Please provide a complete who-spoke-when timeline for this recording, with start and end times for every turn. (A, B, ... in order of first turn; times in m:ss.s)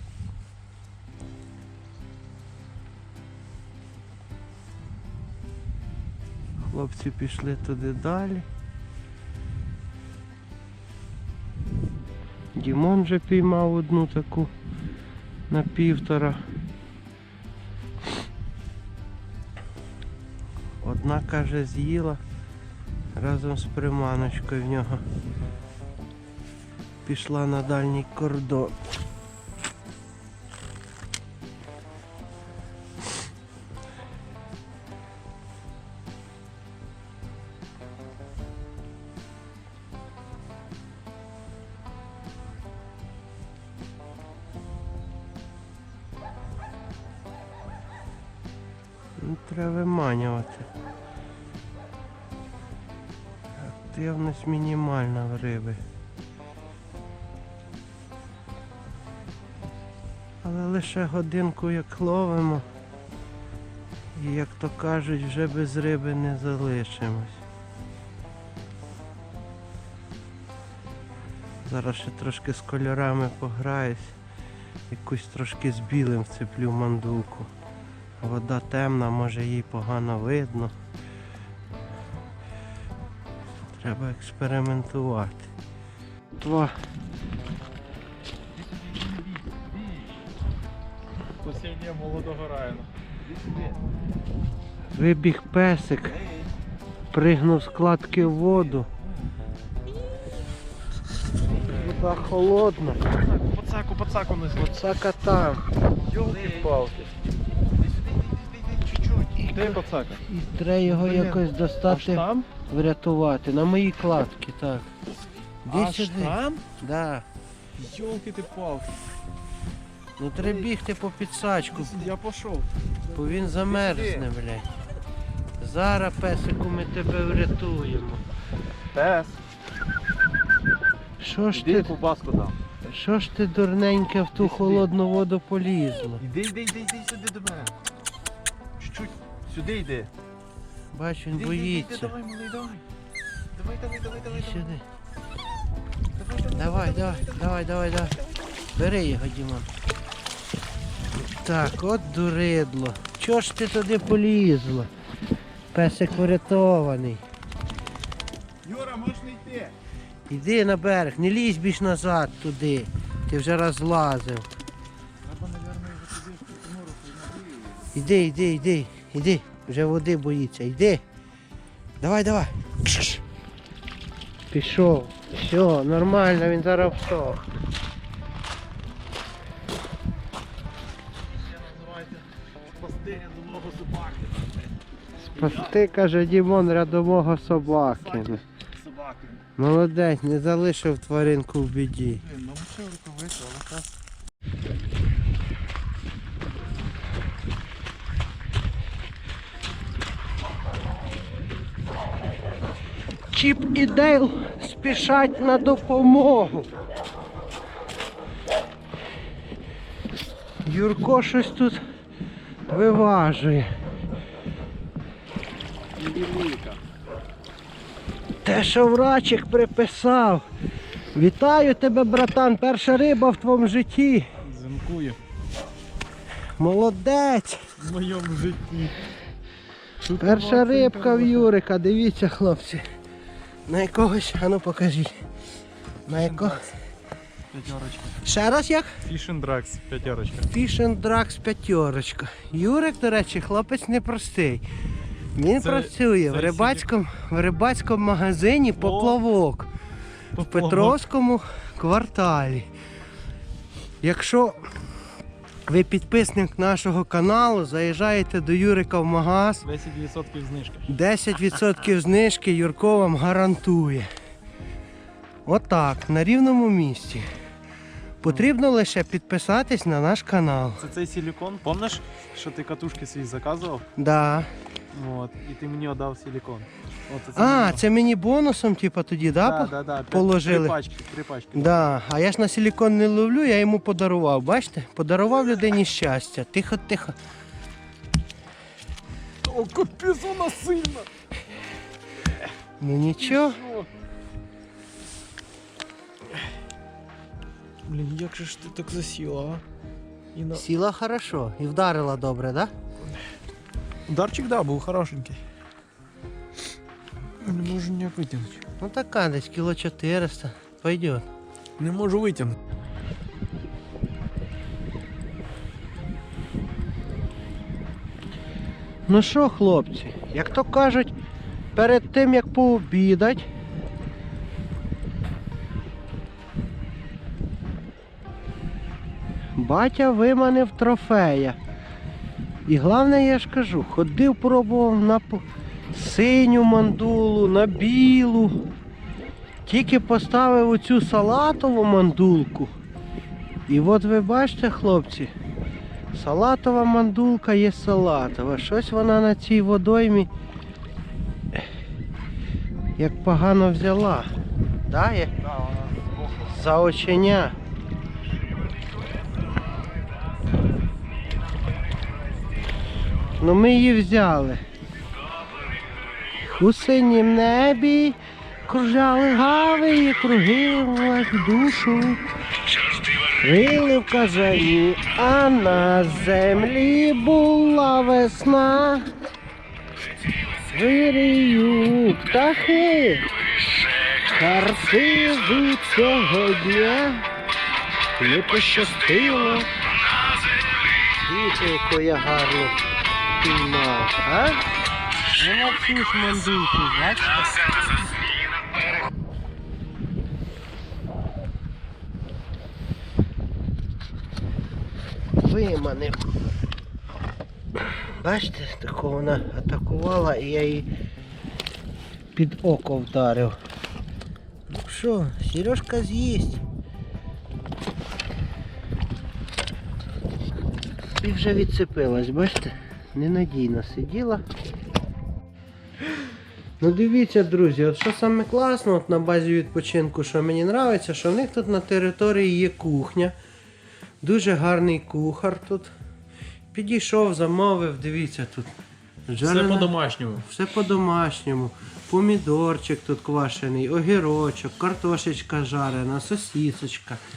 0:06.6-0:08.5 A
0:12.6-0:14.5 A
0:15.5-0:16.4 A
0:20.8-0:22.2 A
0:23.2-0:25.0 A
0:27.0-0:28.8 A
0:49.2-0:50.7 A
0:53.6-0:55.8 A
1:00.4-1:02.6 A
1:04.2-1:07.4 A
1:11.6-1:14.2 A
1:14.9-1:17.5 A
1:18.2-1:20.7 A
1:23.8-1:25.5 A
1:26.4-1:26.8 A
1:31.4-1:32.9 B
1:33.4-1:33.8 C
1:34.9-1:36.2 A
1:37.1-1:38.9 A
1:41.7-1:43.0 A
1:43.2-1:44.8 C
1:44.6-1:45.6 A
1:46.1-1:47.1 C
1:46.2-1:46.8 B
1:47.9-1:50.1 C
1:49.4-1:54.9 A
1:49.6-1:50.1 B
1:51.0-1:51.3 B
1:51.9-1:52.5 B
1:55.6-1:57.3 A
1:55.7-1:56.6 B
1:57.8-1:58.8 C
1:57.9-1:58.8 B
2:00.2-2:02.1 A
2:01.8-2:02.7 C
2:03.1-2:04.7 A
2:03.2-2:04.2 C
2:05.6-2:08.2 A
2:08.9-2:09.4 C
2:11.2-2:11.9 A
2:11.5-2:12.6 C
2:12.9-2:16.2 A
2:14.4-2:14.9 C
2:16.2-2:17.8 C
2:18.8-2:20.1 C
2:20.9-2:22.1 A
2:21.4-2:22.8 C
2:23.6-2:24.6 C
2:24.3-2:24.8 A
2:26.2-2:27.5 C
2:26.5-2:29.7 A
2:31.4-2:34.9 A
2:35.7-2:37.2 A
2:38.7-2:39.7 C
2:40.3-2:44.5 A
2:45.3-2:47.9 C
2:47.9-2:51.0 A
2:52.0-2:53.2 A
2:54.5-2:57.5 A
3:01.8-3:02.1 C
3:02.8-3:04.5 C
3:05.2-3:08.4 A
3:09.0-3:09.4 C
3:09.6-3:12.3 A
3:12.7-3:13.8 C
3:23.3-3:26.7 A
3:30.6-3:31.8 A
3:32.7-3:33.7 A
3:36.0-3:36.8 C
3:38.4-3:40.4 A
3:41.1-3:44.3 A
3:44.5-3:45.1 B
3:44.6-3:45.2 C
3:46.6-3:47.6 A
3:47.8-3:49.0 C
3:50.1-3:51.5 C
3:50.2-3:52.8 A
3:53.7-3:55.2 A
3:56.1-3:56.7 A
3:56.1-3:56.7 B
3:57.5-3:58.0 B
3:57.6-3:57.9 C
3:58.2-3:58.9 A
3:59.1-4:00.4 B
4:00.5-4:04.6 A
4:05.4-4:09.7 A
4:05.6-4:06.9 B
4:08.8-4:09.2 C
4:10.4-4:12.7 A
4:10.6-4:10.9 C
4:14.0-4:14.7 A
4:15.7-4:19.6 A
4:19.6-4:20.8 C
4:20.9-4:24.1 A
4:25.5-4:27.3 A
4:28.2-4:30.8 A
4:30.8-4:33.8 C
4:34.0-4:34.5 A
4:34.9-4:37.8 C
4:37.4-4:40.8 A
4:39.4-4:41.8 C
4:41.5-4:47.2 A
4:49.4-4:51.1 C
4:52.8-4:53.6 A
4:53.3-4:53.9 C
4:57.9-4:59.6 C
5:00.4-5:00.6 C
5:00.5-5:02.7 A
5:04.1-5:05.4 C
5:07.4-5:08.6 C
5:08.8-5:11.3 A
5:11.8-5:12.6 C
5:19.1-5:21.1 A
5:21.8-5:23.5 A
5:29.6-5:31.6 A
5:32.7-5:38.6 A
5:39.7-5:42.7 A
5:43.7-5:45.3 A
5:46.1-5:50.3 A
5:53.0-5:54.3 A
5:54.9-5:55.3 A
5:56.3-5:57.6 A
6:03.4-6:04.6 A
6:06.4-6:12.3 A
6:12.8-6:19.1 A
6:20.7-6:27.3 A
6:28.2-6:29.7 A
6:31.1-6:32.8 A
6:33.4-6:34.6 A
6:35.4-6:38.0 A
6:45.4-6:46.2 A
6:48.2-6:50.9 A
6:52.4-6:53.6 A
6:54.7-6:56.6 A
7:01.2-7:04.4 A
7:06.8-7:13.4 A
7:14.2-7:15.9 A
7:16.7-7:18.7 A
7:19.3-7:27.2 A
7:19.4-7:20.4 C